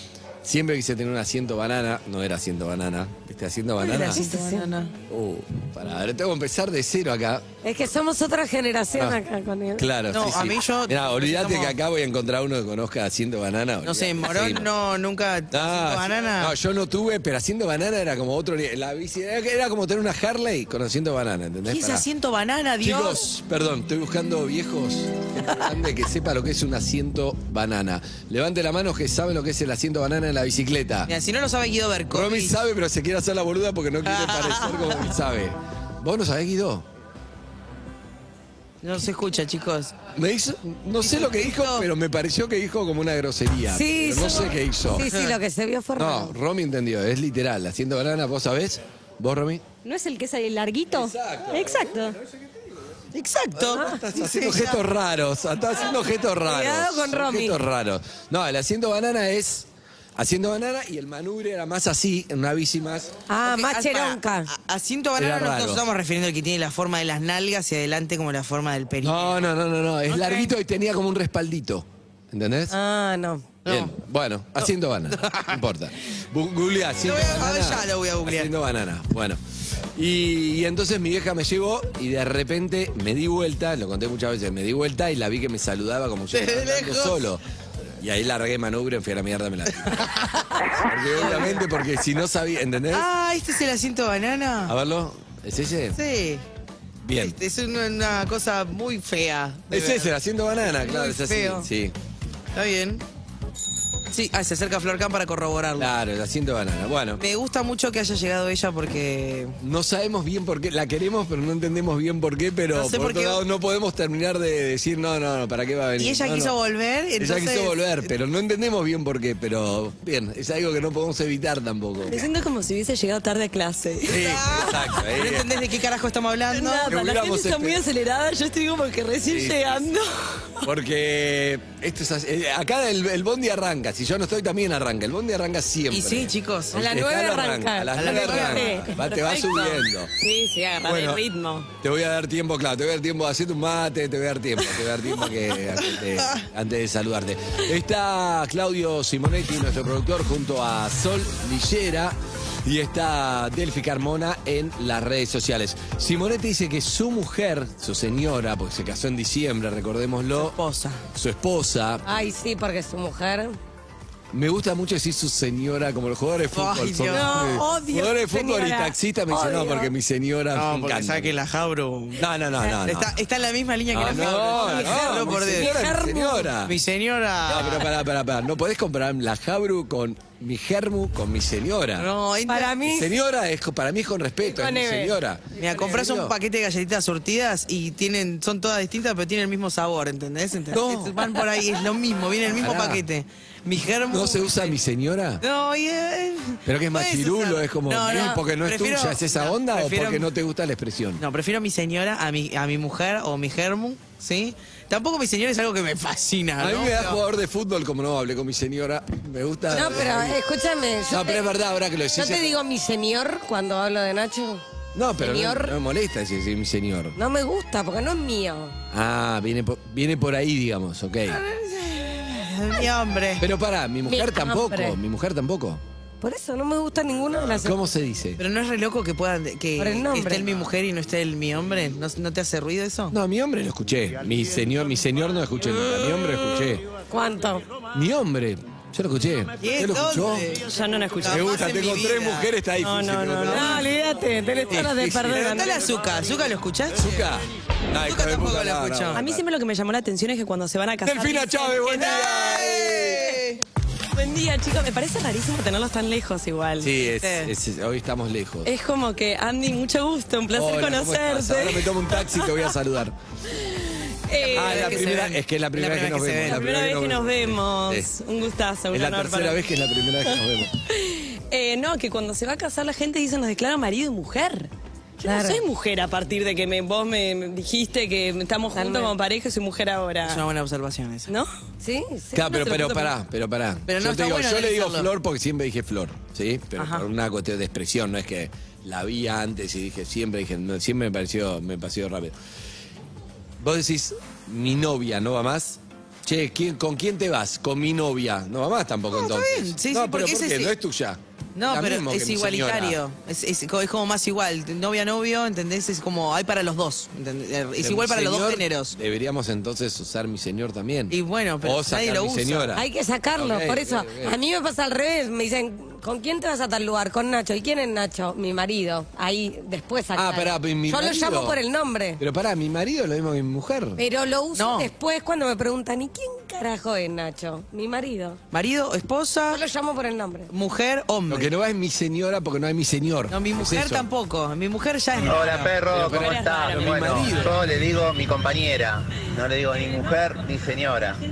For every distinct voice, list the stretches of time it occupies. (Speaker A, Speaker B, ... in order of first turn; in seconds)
Speaker A: 0.4-4.2, 5.1-7.5, 8.9-9.2, 9.8-14.7, 15.5-22.1, 22.8-31.1, 32.1-36.9, 40.1-45.1, 46.0-49.7, 50.9-52.0, 53.5-63.1, 65.2-65.8, 69.0-72.7, 73.7-79.4, 80.0-87.4, 88.0-93.1, 94.7-96.0, 97.0-97.4, 99.7-102.0, 105.8-107.2, 109.6-116.5, 117.2-122.3, 124.0-125.6, 126.8-127.8, 129.3-129.8, 130.6-140.1, 140.8-141.2, 141.8-160.6, 161.1-162.0, 164.3-171.3, 172.2-173.1, 173.9-176.8, 177.5-182.1, 182.8-186.3, 190.7-191.4, 192.6-193.0, 194.1-195.4, 196.7-201.2, 206.6-210.4, 211.1-212.6, 214.9-217.2, 218.9-221.4, 223.4-225.8, 227.6-228.4, 233.1-236.8, 237.9-240.5, 241.2-243.8, 244.7-245.6, 246.9-249.4, 251.0-253.4, 256.8-258.7, 260.5-263.1, 264.5-268.1, 268.9-270.8, 282.3-292.4, 293.6-303.0, 307.8-314.4, 320.1-321.6, 322.2-324.0, 331.3-334.1, 335.8-337.6
Speaker B: 3.8-4.9, 10.1-11.8, 13.8-16.5, 21.7-23.2, 31.1-32.6, 34.1-35.0, 38.8-39.9, 41.0-41.9, 53.1-54.8, 63.4-69.4, 70.1-70.5, 73.7-73.9, 74.6-75.5, 77.0-78.5, 86.3-87.2, 91.1-91.7, 92.9-94.8, 96.0-96.4, 97.2-100.1, 100.8-101.7, 102.5-103.0, 104.1-105.9, 107.2-109.6, 112.7-113.4, 116.0-118.1, 124.1-126.9, 135.9-136.8, 138.0-138.9, 160.4-161.0, 166.5-168.1, 170.5-172.3, 172.8-175.7, 176.7-177.9, 182.0-182.9, 185.6-194.8, 195.4-200.3, 201.2-207.2, 221.3-223.5, 228.4-233.2, 239.6-240.7, 241.2-242.5, 245.3-247.2, 248.0-249.2, 251.9-253.6, 257.2-257.5, 264.4-266.6, 280.2-281.3, 283.9-285.1, 286.8-287.1, 299.1-300.7, 301.6-309.0, 311.1-312.8, 324.6-324.9, 328.5-329.6, 330.5-331.5, 333.3-335.9
Speaker C: 4.0-4.7, 7.6-9.9, 43.7-46.3, 56.5-57.6, 63.3-64.5, 72.7-73.5, 136.7-138.9, 162.1-163.6, 167.1-169.9, 174.0-176.5, 182.5-183.1, 184.4-186.0, 209.7-211.4, 212.2-214.6, 215.2-215.8, 217.2-218.8, 224.1-225.0, 226.2-227.8, 229.8-230.4, 237.1-237.6, 243.5-245.8, 275.2-275.6, 278.7-279.1, 281.8-282.7, 312.8-322.2, 324.0-328.4, 329.5-330.5
Speaker D: 49.9-52.0, 122.0-124.3, 126.5-130.7, 139.0-141.7, 240.7-241.5, 242.8-243.8, 249.1-252.2, 254.2-256.9, 258.6-262.5, 264.3-265.1, 266.5-269.6, 270.9-274.7, 275.2-280.4, 282.5-283.1, 335.9-337.6, 339.8-340.2
Speaker E: 335.3-341.2